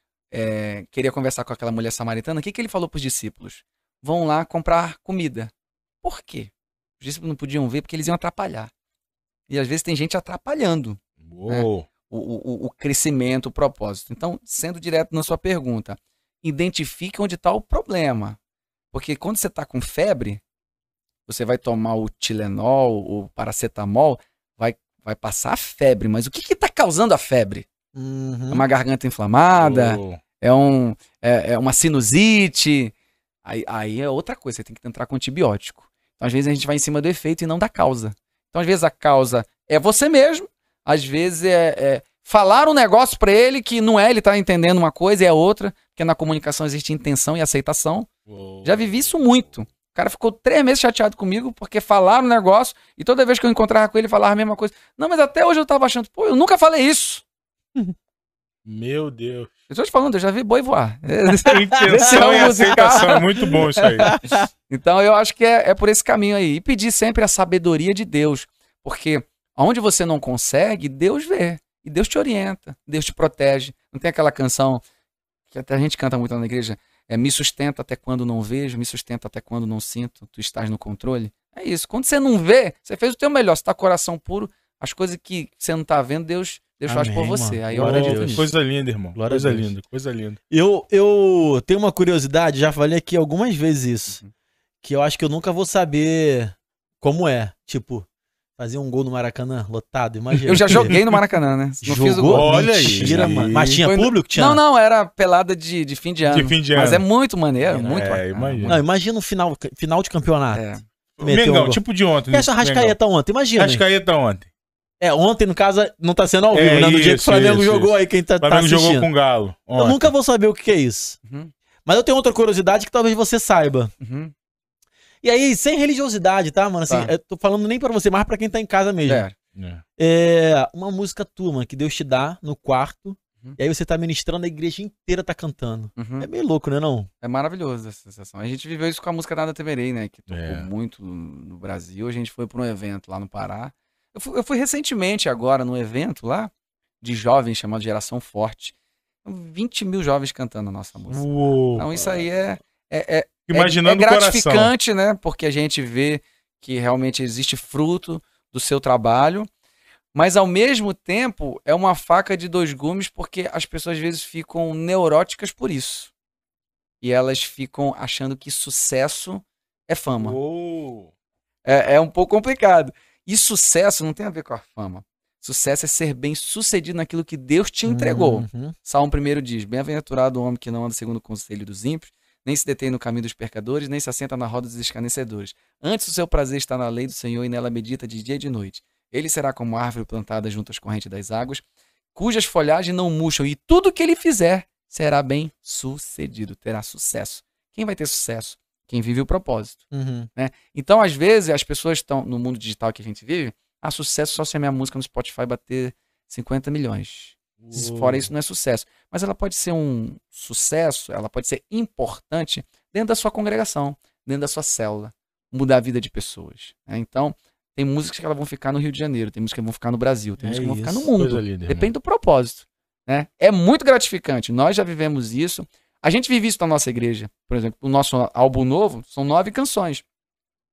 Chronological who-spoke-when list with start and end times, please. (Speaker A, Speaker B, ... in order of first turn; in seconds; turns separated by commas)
Speaker A: 0.3-5.5, Speaker A: 6.0-8.7, Speaker A: 9.5-18.4, Speaker B: 11.2-11.9, Speaker A: 18.9-20.4, Speaker A: 21.3-27.7, Speaker C: 27.9-28.6, Speaker A: 28.5-32.9, Speaker B: 29.6-30.2, Speaker A: 33.5-48.1, Speaker B: 48.3-49.1, Speaker A: 48.6-57.2, Speaker B: 58.6-59.5, Speaker A: 59.7-64.1, Speaker B: 61.5-64.2, Speaker C: 61.8-63.0, Speaker C: 64.0-64.5, Speaker A: 64.7-74.8, Speaker A: 75.5-88.5, Speaker C: 86.9-88.5, Speaker B: 87.7-90.4, Speaker C: 89.2-89.7, Speaker C: 90.5-94.2, Speaker C: 94.8-98.1, Speaker C: 98.6-101.0, Speaker B: 100.4-101.2, Speaker A: 100.5-108.8, Speaker C: 101.8-104.6, Speaker B: 102.3-103.8, Speaker B: 106.3-107.0, Speaker C: 107.7-108.0, Speaker B: 107.8-108.8, Speaker C: 108.7-110.7, Speaker A: 110.5-110.8, Speaker B: 111.2-113.0, Speaker C: 111.2-111.8, Speaker C: 112.3-113.8, Speaker B: 113.6-114.5, Speaker C: 115.0-119.1, Speaker B: 116.5-120.1, Speaker C: 119.8-121.2, Speaker A: 121.3-121.5, Speaker C: 121.9-123.9, Speaker A: 124.0-124.3, Speaker C: 125.2-129.3, Speaker A: 129.1-129.3, Speaker B: 129.6-129.8, Speaker C: 130.0-137.1, Speaker A: 136.0-136.3, Speaker A: 137.2-146.5, Speaker B: 140.3-140.7, Speaker A: 147.0-148.7, Speaker A: 149.2-159.5, Speaker B: 151.1-152.2, Speaker B: 153.5-154.7, Speaker A: 160.1-166.1, Speaker A: 167.0-170.4, Speaker B: 170.2-171.1, Speaker A: 171.7-191.6, Speaker C: 177.9-178.8, Speaker A: 192.2-230.0, Speaker C: 199.9-200.3, Speaker B: 207.6-208.3, Speaker C: 220.4-221.1, Speaker B: 221.2-221.9